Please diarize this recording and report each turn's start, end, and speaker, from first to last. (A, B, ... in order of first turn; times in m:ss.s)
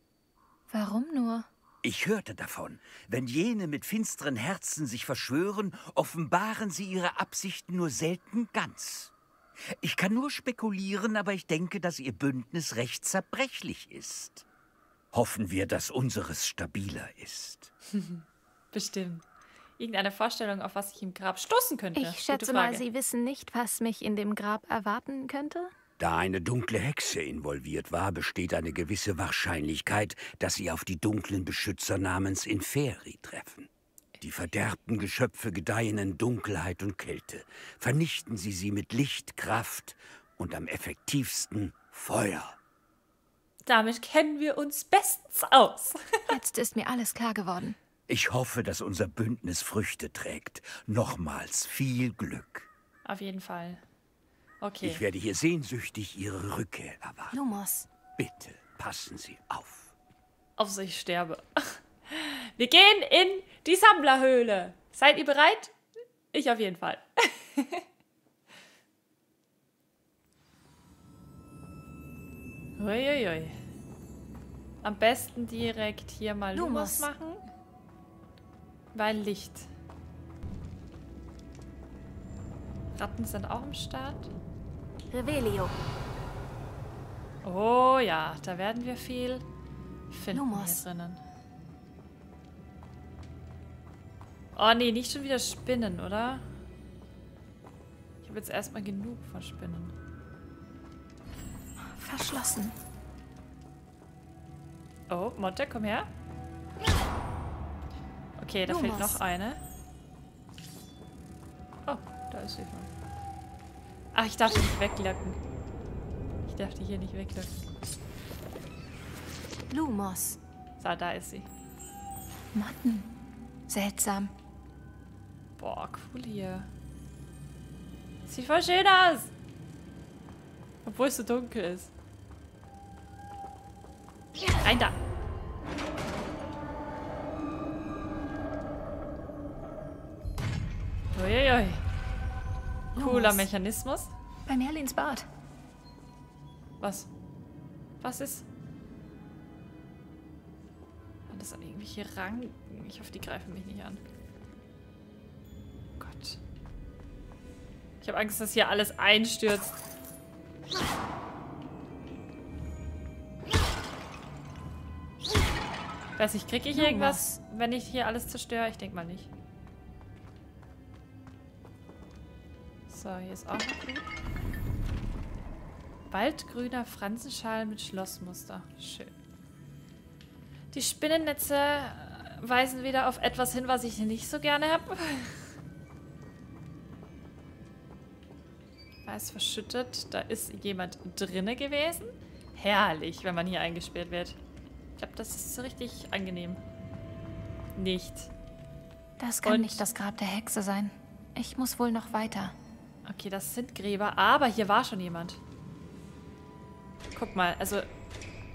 0:00.7-0:01.5 A
0:01.8-0:09.1 B
0:09.8-0:14.4 B
0:15.1-0:17.7 B
0:17.9-0:19.2 C
0:19.8-0:22.8 C
0:22.0-0:25.7 A
0:26.0-0:33.7 B
0:34.2-0:42.6 B
0:43.7-0:46.3 C
0:46.3-0:47.8 A
0:48.1-0:52.7 B
0:53.0-0:53.8 C
0:54.6-0:55.0 C
0:54.8-0:57.4 B
0:57.3-0:57.9 A
0:58.2-0:59.9 B
1:00.6-1:05.8 C
1:06.3-1:07.9 C
1:12.8-1:13.6 C
1:14.8-1:17.4 C
1:16.5-1:17.1 A
1:18.9-1:19.7 C
1:23.0-1:24.3 C
1:25.1-1:25.8 A
1:27.4-1:29.4 C
1:30.1-1:31.2 C
1:30.3-1:30.8 A
1:34.6-1:36.4 C
1:38.2-1:39.9 C
1:41.8-1:42.8 A
1:45.1-1:46.1 C
1:48.4-1:49.6 C
1:48.7-1:49.2 A
1:51.9-1:52.9 C
1:54.1-1:55.4 C
1:56.5-1:57.6 C
1:59.7-2:00.4 A
2:00.8-2:01.5 C
2:02.5-2:03.1 A
2:03.7-2:04.3 A
2:05.6-2:06.7 C
2:08.3-2:09.3 C
2:10.8-2:11.9 C
2:14.6-2:15.0 C
2:21.1-2:21.8 C
2:23.0-2:23.5 A
2:23.0-2:24.1 C
2:24.5-2:25.3 A
2:26.8-2:27.1 C
2:28.0-2:28.5 C
2:31.3-2:34.0 C
2:36.0-2:36.4 C
2:38.0-2:39.8 C
2:46.2-2:49.3 C
2:46.7-2:47.4 A
2:52.9-2:54.1 C
2:56.1-2:59.2 C
3:00.7-3:05.4 C
3:09.1-3:14.4 C
3:15.0-3:16.6 C
3:17.8-3:18.3 C
3:19.2-3:22.6 A
3:19.4-3:19.9 C
3:23.0-3:25.4 C
3:27.2-3:27.9 C